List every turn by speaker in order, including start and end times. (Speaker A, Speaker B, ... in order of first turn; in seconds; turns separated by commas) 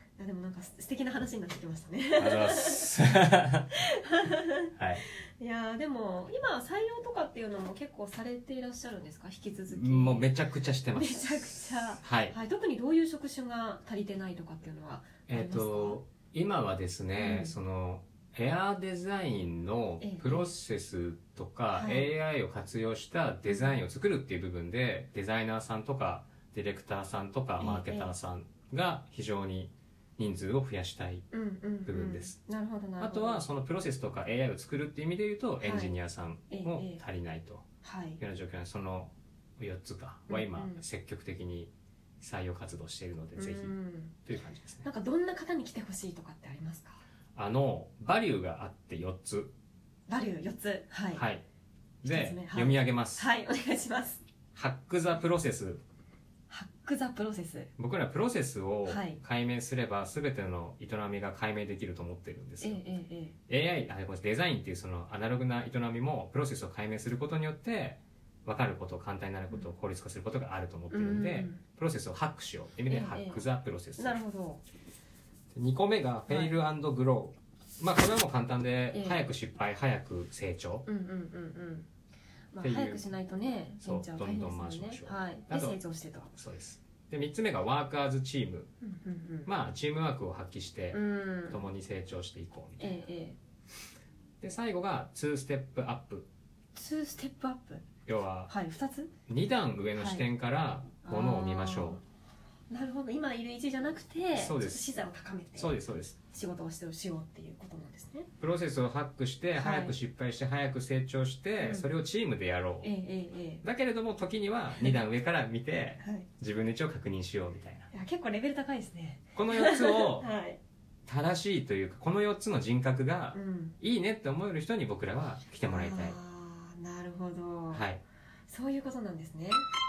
Speaker A: 0.2-2.9, Speaker B: 2.2-3.7, Speaker A: 3.8-4.7, Speaker B: 4.8-5.0, Speaker A: 5.4-10.3, Speaker B: 9.7-12.4, Speaker A: 10.9-16.0, Speaker B: 15.3-31.2, Speaker A: 17.2-17.5, Speaker A: 20.0-20.5, Speaker A: 21.7-22.1, Speaker A: 23.5-23.8, Speaker A: 27.6-28.1, Speaker A: 31.3-33.5, Speaker B: 31.9-32.4, Speaker B: 33.0-37.6, Speaker A: 35.6-36.0, Speaker A: 36.5-37.0, Speaker A: 37.8-38.2, Speaker B: 38.2-43.7, Speaker A: 40.3-40.8, Speaker A: 43.4-44.1, Speaker B: 44.3-44.9, Speaker A: 44.8-47.0, Speaker B: 47.4-49.5, Speaker A: 50.1-51.2, Speaker B: 51.1-51.4, Speaker B: 52.0-53.3, Speaker A: 52.1-54.2, Speaker B: 54.5-55.8, Speaker A: 56.5-57.7, Speaker B: 57.8-62.8, Speaker A: 58.9-59.2, Speaker A: 62.6-63.4, Speaker B: 63.5-74.2, Speaker A: 70.9-71.6, Speaker A: 72.9-73.5, Speaker A: 74.0-74.6, Speaker B: 75.5-80.9, Speaker A: 76.3-76.6, Speaker A: 78.9-79.2, Speaker A: 80.9-81.9, Speaker A: 82.5-86.3, Speaker B: 82.6-83.1, Speaker B: 83.8-85.8, Speaker B: 86.4-88.7, Speaker A: 88.8-89.5, Speaker B: 89.5-93.0, Speaker A: 90.9-91.6, Speaker A: 92.8-93.4, Speaker B: 94.4-96.3, Speaker A: 96.8-97.8, Speaker B: 98.1-98.5, Speaker A: 98.5-99.1, Speaker B: 99.3-102.0, Speaker A: 100.0-100.3, Speaker A: 101.0-102.0, Speaker A: 102.7-105.7, Speaker B: 104.3-106.2, Speaker A: 106.3-108.3, Speaker B: 108.4-112.9, Speaker A: 109.6-110.0, Speaker A: 111.6-111.9, Speaker A: 112.8-113.6, Speaker B: 113.6-117.9, Speaker A: 116.0-116.3, Speaker A: 117.9-120.6, Speaker B: 119.4-120.3, Speaker B: 121.1-126.2, Speaker A: 123.3-123.8, Speaker A: 125.7-127.8, Speaker B: 127.7-128.0, Speaker A: 128.5-129.7